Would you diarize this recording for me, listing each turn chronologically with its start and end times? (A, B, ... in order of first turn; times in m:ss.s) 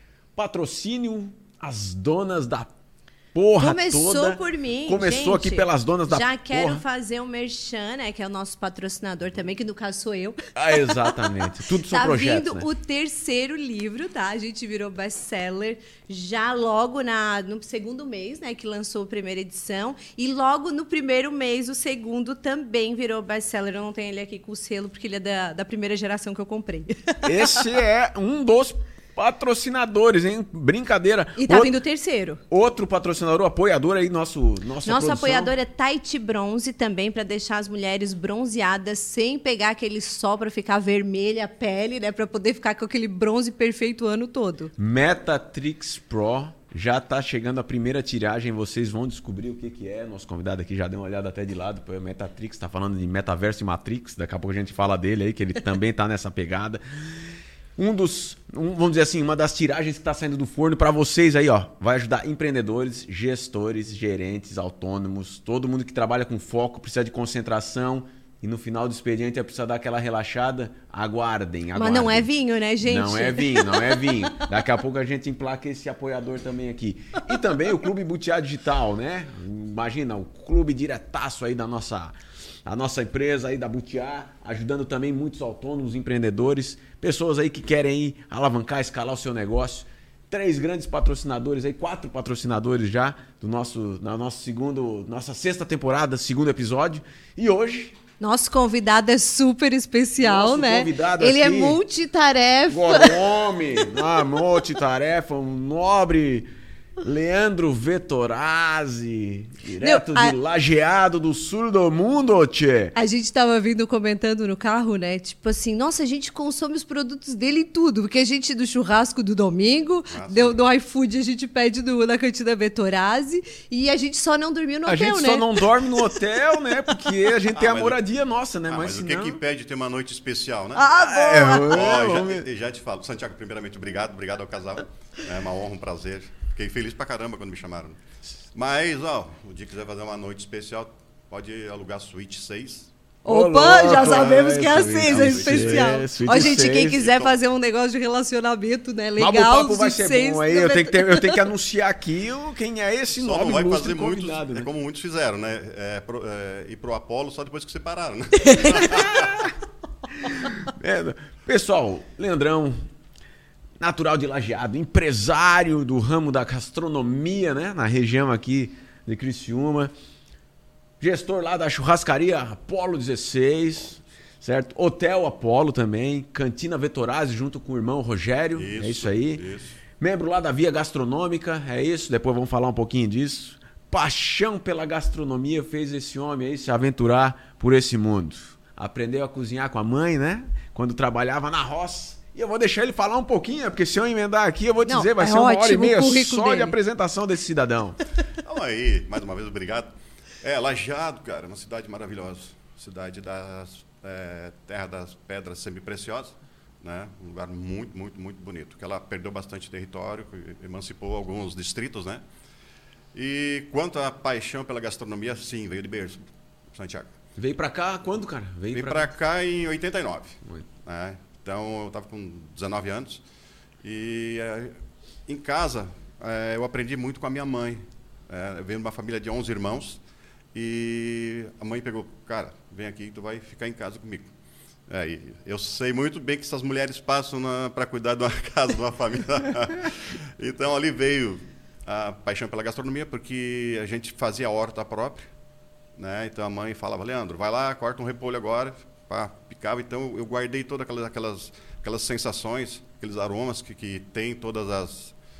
0:00.4-0:02.7 A
0:03.3-0:06.8 A
0:03.6-0:27.8 B
0:10.6-0:12.7 A
0:27.2-0:31.8 A
0:31.4-0:32.4 B
0:32.5-0:35.5 A
0:34.8-0:44.7 B
0:44.8-1:12.3 A
1:11.8-1:14.3 B
1:12.8-1:38.0 A
1:38.2-1:43.4 B
1:40.2-1:41.8 A
1:42.7-1:46.5 A
1:47.0-1:52.9 A
1:49.8-1:50.4 B
1:53.0-2:05.7 B
2:00.1-2:00.6 C
2:04.9-2:09.4 A
2:07.5-2:08.0 C
2:08.7-2:11.0 C
2:10.8-2:11.8 B
2:11.0-2:12.5 A
2:11.7-2:18.0 C
2:18.5-2:22.9 C
2:23.2-2:31.4 B
2:23.3-2:27.0 A
2:23.9-2:27.4 C
2:29.2-2:34.7 A
2:33.1-2:39.5 C
2:38.5-2:38.8 B
2:38.9-2:39.5 A
2:40.2-2:42.9 A
2:43.8-2:49.9 A
2:51.0-2:59.4 A
2:58.6-2:59.8 C
3:00.0-3:18.0 A
3:14.9-3:16.8 B
3:18.4-3:32.2 C
3:33.1-3:37.1 C
3:37.4-3:39.1 A
3:38.7-3:43.2 C
3:43.8-3:50.0 C
3:50.5-3:54.3 C
3:54.9-4:05.3 C
4:06.0-4:15.2 C